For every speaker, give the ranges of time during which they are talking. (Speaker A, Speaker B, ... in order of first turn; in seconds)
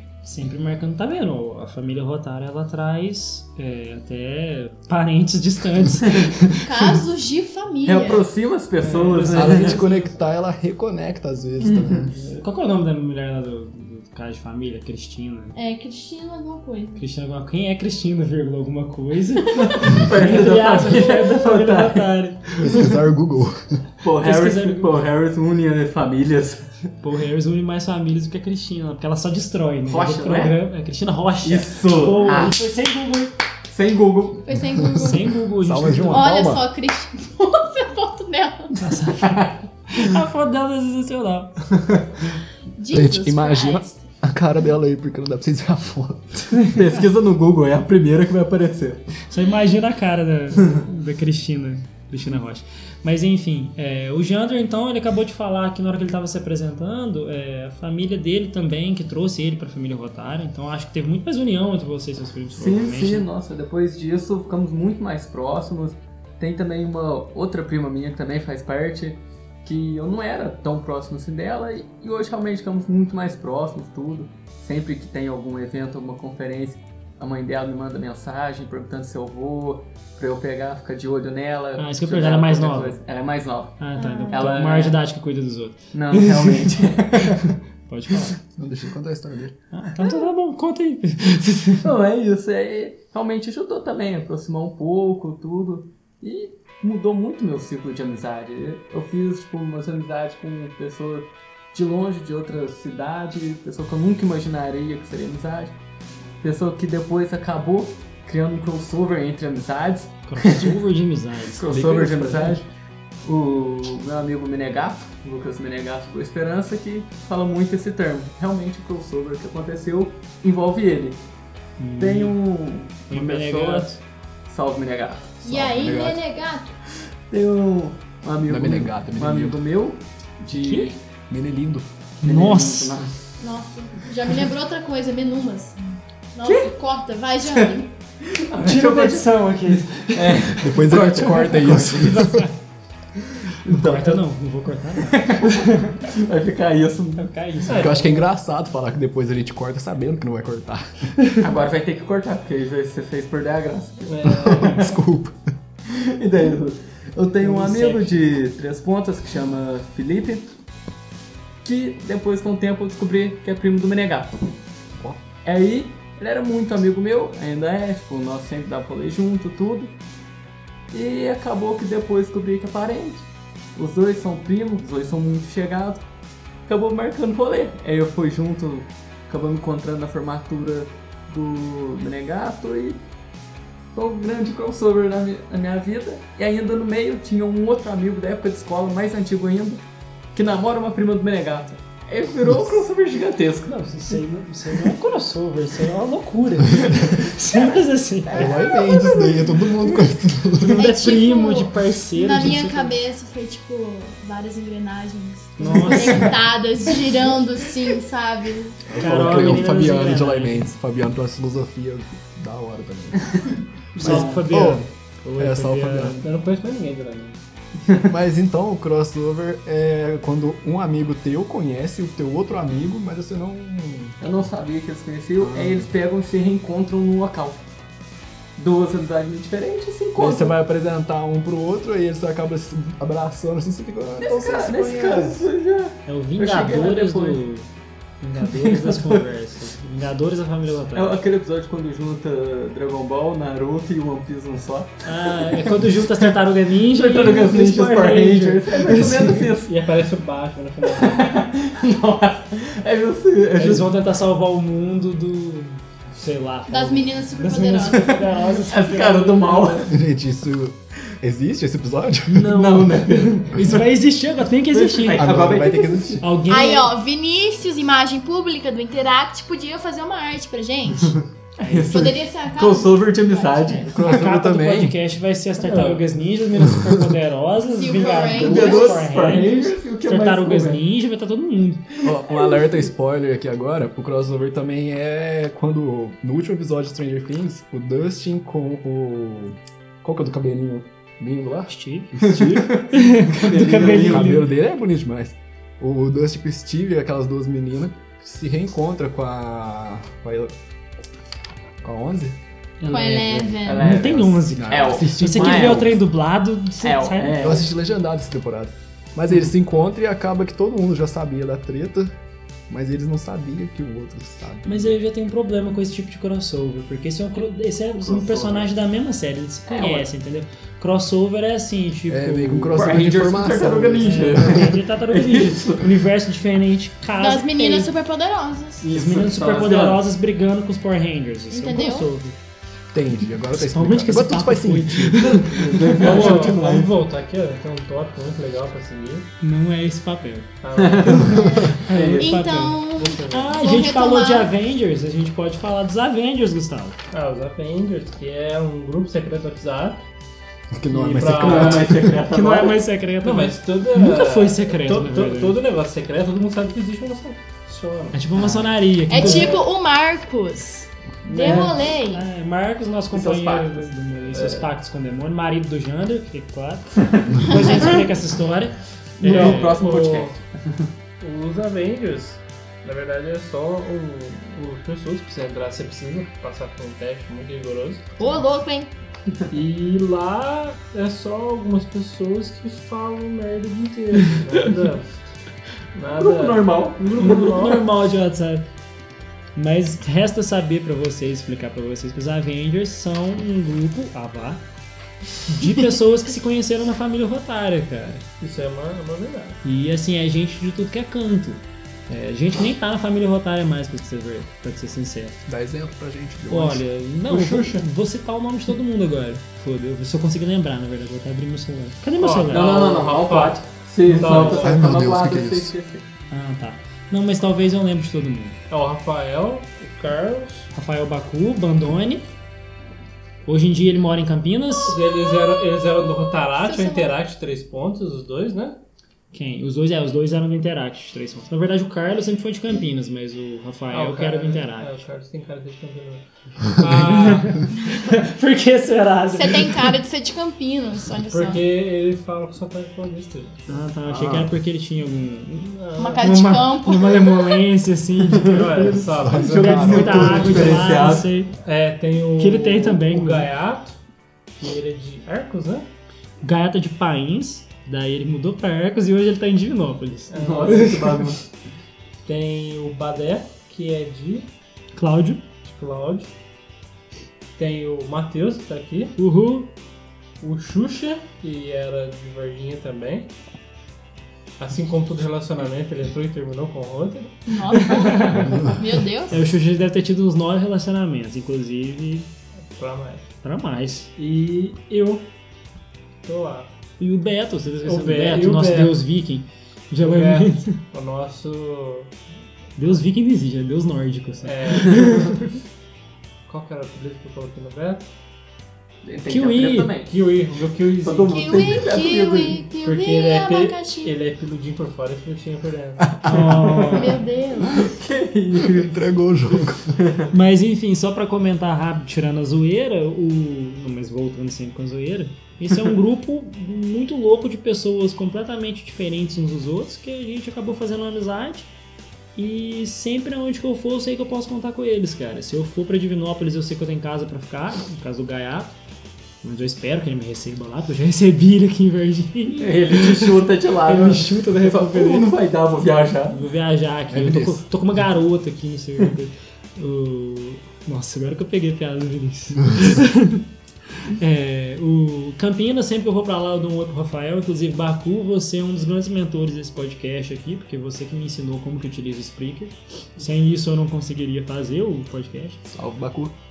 Speaker A: 0.2-7.0, 9.1-10.0, 12.1-15.6, 16.9-23.0, 24.2-25.0, 27.0-33.3, 34.9-36.3, 38.8-41.6, 49.3-63.3, 81.8-83.0, 83.8-88.4, 89.7-91.9, 110.3-111.6, 121.8-122.3, 123.1-124.0, 130.5-130.9, 132.2-132.9, 138.6-142.6, 143.7-146.0, 147.2-148.2, 157.4-158.2, 193.7-198.5, 200.6-202.9, 205.6-206.4, 209.0-210.7, 213.9-216.2, 236.1-237.7, 238.2-241.1, 245.0-249.5, 253.6-259.8, 262.4-265.4, 266.2-266.9, 271.6-272.2, 273.9-281.9, 291.7-294.5, 302.8-307.6, 314.6-323.0, 324.0-327.9, 328.9-332.4, 333.5-336.4, 339.4-340.5, 341.1-347.0, 352.3-355.6, 358.1-359.6, 361.4-369.8, 387.2-388.7, 389.6-394.6, 395.5-398.2, 399.6-405.4, 406.5-412.8, 414.1-414.6, 416.3-418.6, 420.7-422.3, 423.4-425.0, 429.3-435.1, 436.8-439.9, 443.7-451.5, 452.4-453.5, 456.4-461.2, 464.9-465.4, 469.2-469.7, 477.7-478.6, 479.3-482.3, 483.4-484.1, 487.0-490.8, 492.8-495.4, 499.3-499.9, 506.2-507.2, 510.3-521.7, 522.4-528.7, 529.4-535.3, 536.3-555.6
Speaker B: 6.6-8.3, 15.5-17.0, 19.6-19.9, 34.4-35.4, 36.1-38.9, 42.8-44.0, 84.0-84.5, 125.4-126.7, 133.4-135.8, 136.3-137.9, 200.7-208.9, 256.7-258.3, 266.5-271.1, 271.9-273.9, 277.7-279.3, 302.9-304.0, 327.2-328.9, 331.5-332.1, 341.4-344.5, 359.1-362.2, 367.5-368.0, 378.2-378.9, 425.1-427.2, 439.3-441.6, 446.0-447.6, 477.5-479.4, 501.3-504.1, 506.9-508.0
Speaker C: 7.8-9.8, 11.6-12.1, 19.6-22.1, 24.0-26.7, 29.9-30.6, 31.4-32.6, 33.7-34.4, 39.2-39.5, 46.7-49.0, 62.5-85.0, 85.9-87.5, 91.8-105.7, 106.4-110.8, 111.5-112.6, 113.2-121.2, 122.0-125.4, 127.3-131.0, 132.2-133.1, 136.4-136.7, 137.4-139.4, 140.1-142.0, 143.5-144.2, 145.1-147.3, 151.4-154.3, 155.9-160.5, 161.6-164.4, 165.4-169.9, 170.9-176.0, 176.7-183.0, 183.9-189.8, 190.3-194.1, 198.3-199.0, 205.7-206.3, 224.2-227.6, 228.6-230.6, 234.2-237.4, 238.5-239.2, 240.9-246.3, 246.9-249.7, 250.9-253.9, 258.1-259.9, 262.3-263.7, 264.7-266.2, 271.2-274.0, 278.2-280.8, 292.3-294.4, 303.6-306.0, 306.8-307.6, 317.9-318.7, 319.7-320.1, 322.7-325.9, 328.8-330.0, 335.2-336.9, 340.7-342.4, 351.3-352.8, 361.3-361.7, 363.1-363.9, 367.1-367.9, 369.2-370.9, 386.1-387.7, 412.5-416.1, 449.3-451.3, 460.4-461.4, 499.0-500.1, 501.0-502.6, 507.7-509.0, 509.9-510.3, 532.5-536.4
Speaker D: 8.8-9.7, 147.7-148.1, 154.0-154.9, 214.0-214.5, 216.2-217.4, 249.6-251.4, 275.7-275.9, 335.9-339.3, 340.6-341.5, 343.0-343.6, 347.1-350.0, 350.9-351.9, 353.2-358.2, 359.2-359.7, 361.4-361.7, 364.3-364.7, 369.2-370.4, 371.2-378.1, 379.5-385.1, 385.9-387.9, 398.4-399.6, 407.3-407.9, 412.2-414.8, 418.7-420.7, 424.8-428.8, 433.9-437.6, 441.2-443.8, 445.8-446.3, 448.4-454.0, 454.6-455.9, 460.3-461.1, 462.2-464.5, 465.6-466.3, 467.6-469.2, 470.4-473.3, 474.6-478.3, 482.7-483.3, 484.2-485.3, 486.2-486.7, 487.8-489.0, 490.0-492.1, 494.4-495.5, 496.4-498.1, 500.1-501.8, 502.8-507.2
Speaker E: 9.3-12.1, 22.6-23.8, 34.8-36.7, 42.9-46.5, 88.5-89.6, 111.6-112.6, 125.4-126.2, 128.4-129.6, 131.3-131.9, 140.6-142.4, 147.7-151.1, 154.2-155.4, 192.4-192.8, 198.3-200.9, 208.9-213.3, 213.9-214.8, 215.4-216.2, 218.0-224.2, 225.4-225.9, 230.2-235.4, 259.9-262.6, 265.1-266.2, 273.9-274.9, 282.0-292.8, 293.7-300.5, 301.8-302.4, 304.5-306.0, 307.4-312.1, 312.7-314.9, 322.1-324.7, 332.9-335.4, 341.4-341.7, 350.7-352.2, 405.5-406.8, 414.3-415.7, 444.1-444.5, 449.0-450.5, 508.6-510.0, 537.1-537.6, 555.7-556.3